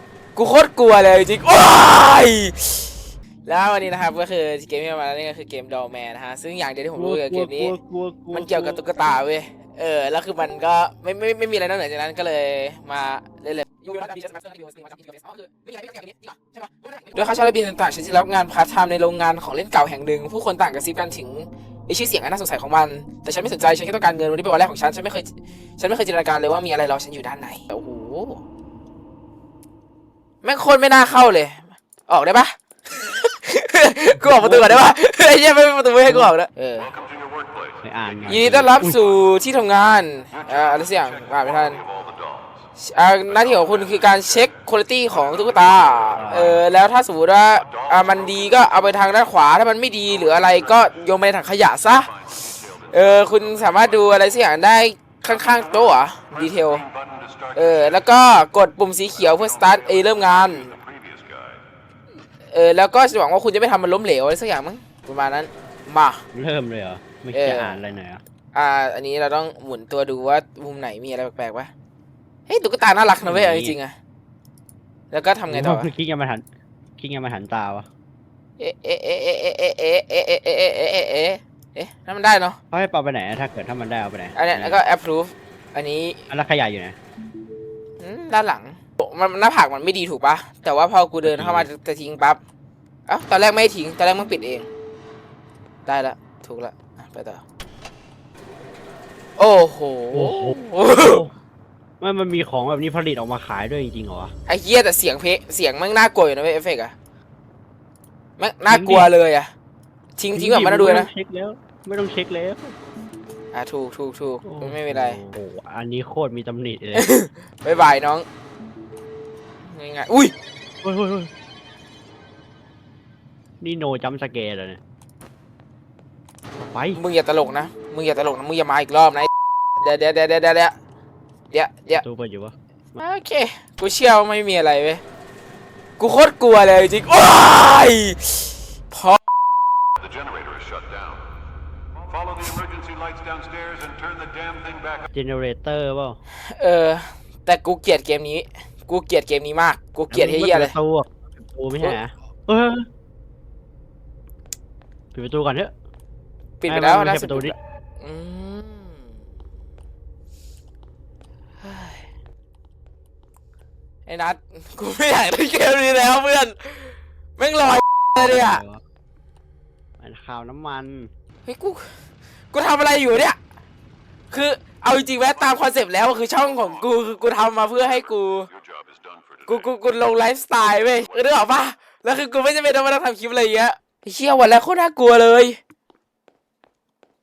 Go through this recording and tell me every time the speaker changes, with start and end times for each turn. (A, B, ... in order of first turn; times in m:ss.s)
0:00.4-0:07.8 A
0:07.0-0:08.9 B
0:08.3-0:28.4 A
0:30.4-0:36.9 A
0:34.2-0:34.9 B
0:36.1-0:36.3 B
0:36.9-0:37.8 C
0:37.8-0:39.0 B
0:38.3-0:41.8 A
0:41.8-0:42.4 C
0:42.8-0:52.1 A
0:46.1-0:46.6 B
0:52.9-0:56.8 A
0:56.9-0:57.6 C
0:57.6-1:00.7 A
1:00.7-1:01.6 C
1:02.5-1:06.2 A
1:06.3-1:08.2 B
1:07.3-1:07.8 A
1:08.5-1:11.7 A
1:12.5-1:13.9 A
1:13.2-1:13.8 B
1:15.1-1:15.9 A
1:15.5-1:16.4 B
1:17.0-1:17.9 B
1:18.6-1:22.6 A
1:22.7-1:24.8 B
1:24.4-1:26.2 A
1:26.3-1:27.0 B
1:28.0-1:32.4 A
1:31.2-1:31.7 B
1:33.1-1:34.7 A
1:35.9-1:37.4 A
1:39.4-1:41.2 A
1:40.1-1:41.3 B
1:42.0-1:44.3 B
1:44.5-1:46.9 A
1:48.4-1:49.5 A
1:48.7-1:49.1 B
1:50.2-1:51.1 A
1:50.3-1:52.8 B
1:53.5-1:55.2 A
1:54.4-1:57.1 B
1:57.0-1:58.2 A
1:59.6-2:00.3 A
2:00.8-2:01.3 B
2:03.6-2:04.8 B
2:06.7-2:07.0 B
2:06.9-2:10.7 A
2:11.5-2:12.0 A
2:11.9-2:13.0 B
2:13.0-2:15.0 A
2:16.0-2:19.2 A
2:20.0-2:21.2 C
2:22.1-2:25.0 C
2:25.1-2:26.2 B
2:26.5-2:30.7 A
2:30.1-2:32.9 B
2:35.1-2:35.7 B
2:36.6-2:39.0 A
2:36.7-2:37.6 B
2:41.6-2:42.0 A
2:44.1-2:48.6 A
2:48.2-2:48.8 B
2:50.0-2:51.1 B
2:51.5-2:51.9 A
2:52.5-2:53.4 A
2:54.3-2:58.5 A
2:58.5-2:59.5 C
2:59.5-3:05.6 A